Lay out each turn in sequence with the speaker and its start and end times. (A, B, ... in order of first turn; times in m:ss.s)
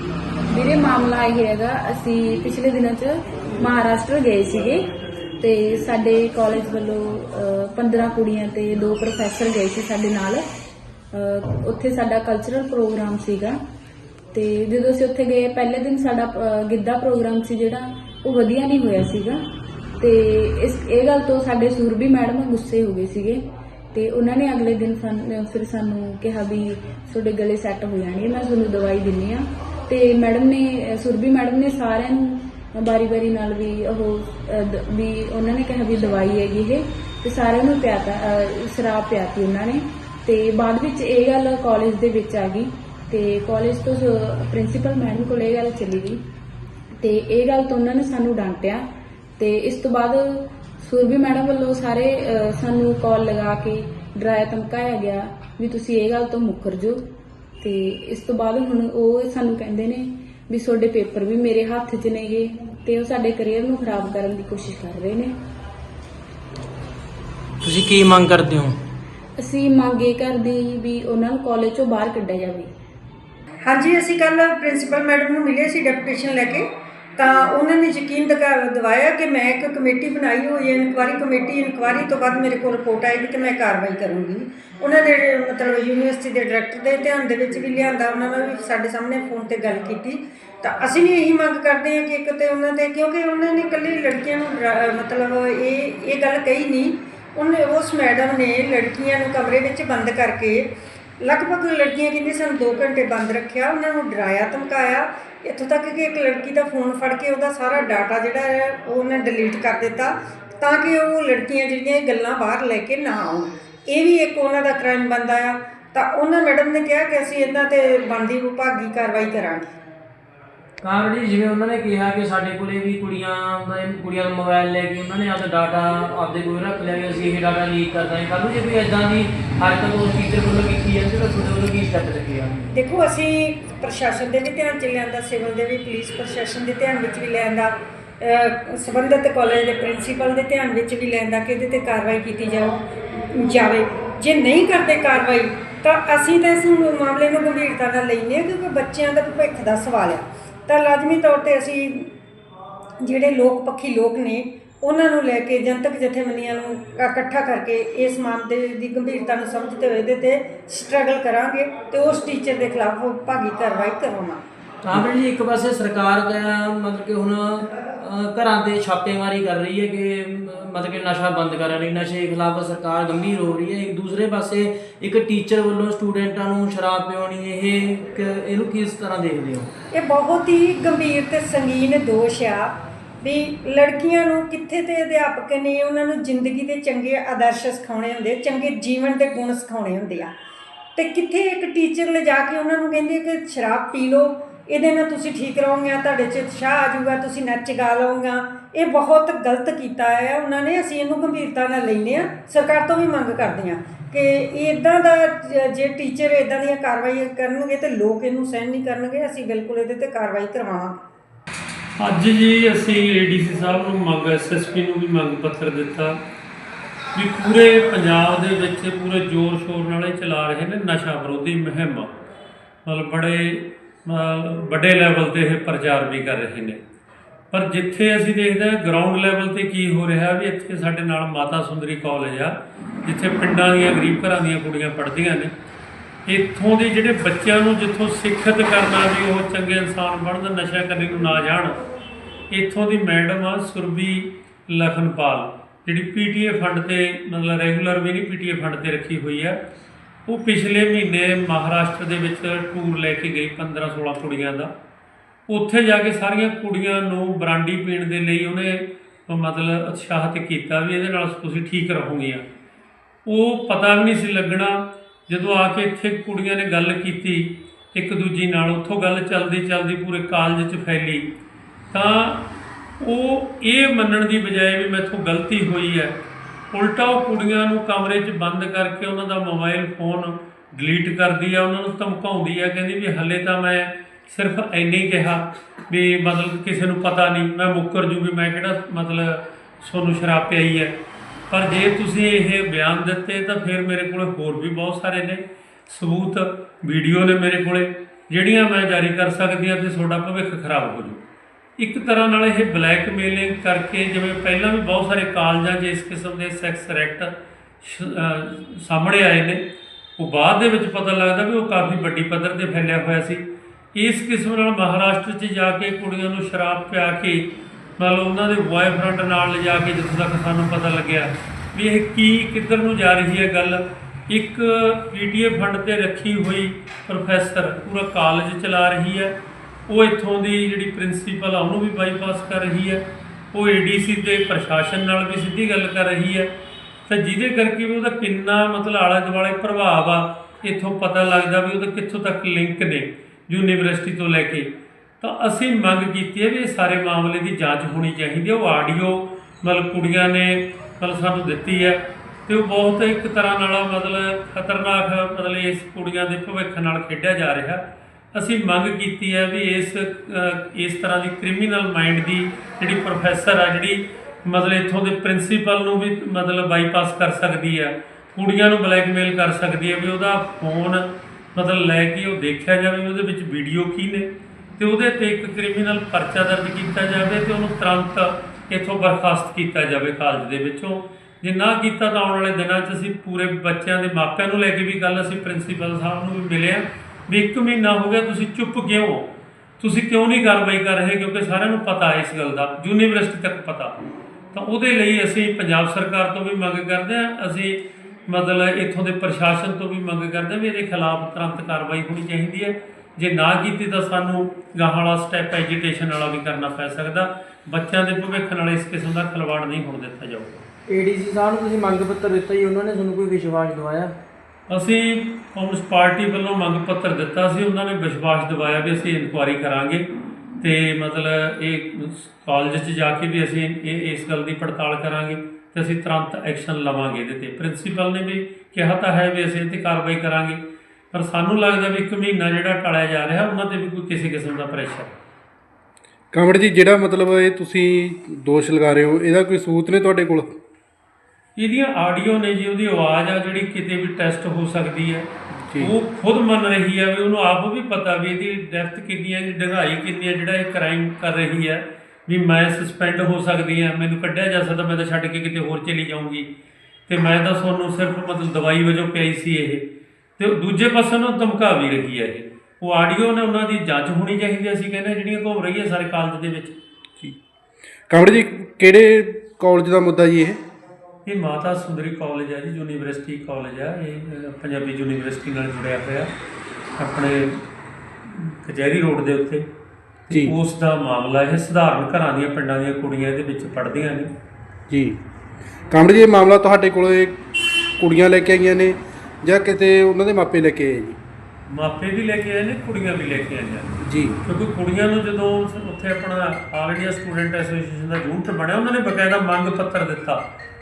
0:00.5-0:04.8 A
0:05.4-0:10.4 A
0:11.1-0:13.6 A
0:14.3-0:19.4 A
0:20.0-0:46.2 A
0:47.0-0:48.8 A
0:49.4-0:57.0 A
0:57.6-1:05.3 A
1:07.6-1:08.8 B
1:09.4-1:12.7 A
1:13.6-1:40.7 C
1:41.2-1:59.7 C
2:00.8-2:12.7 B
2:12.7-2:32.1 C
2:33.0-2:44.4 C
2:44.8-2:59.7 B
2:59.9-3:10.3 C
3:11.0-3:31.0 C
3:32.0-3:36.2 D
3:37.1-3:42.1 D
3:42.8-3:46.8 D
3:47.5-3:55.5 D
3:56.2-4:01.8 D
4:02.5-4:09.6 D
4:10.3-4:14.7 D
4:15.5-4:22.4 D
4:23.2-4:31.3 D
4:31.9-4:32.5 D
4:33.0-4:36.2 D
4:36.7-4:50.9 D
4:51.5-5:01.2 D
5:01.8-5:09.6 D
5:10.2-5:13.4 D
5:13.9-5:17.4 D
5:18.0-5:29.3 D
5:29.9-5:36.5 D
5:37.1-5:57.8 D
5:58.3-6:33.9 D
6:34.5-6:50.6 D
6:50.9-6:54.1 B
6:54.7-7:00.1 D
7:00.6-7:10.6 D
7:11.1-7:15.1 D
7:16.3-7:20.5 E
7:21.6-7:36.5 D
7:37.1-7:39.8 D
7:40.4-7:46.8 D
7:48.1-7:50.6 E
7:51.2-7:56.3 D
7:57.0-7:57.6 D
7:58.2-7:59.6 D
8:00.3-8:04.3 D
8:04.9-8:05.2 E
8:05.9-8:07.4 E
8:08.0-8:11.2 E
8:11.7-8:20.4 D
8:14.0-8:14.4 E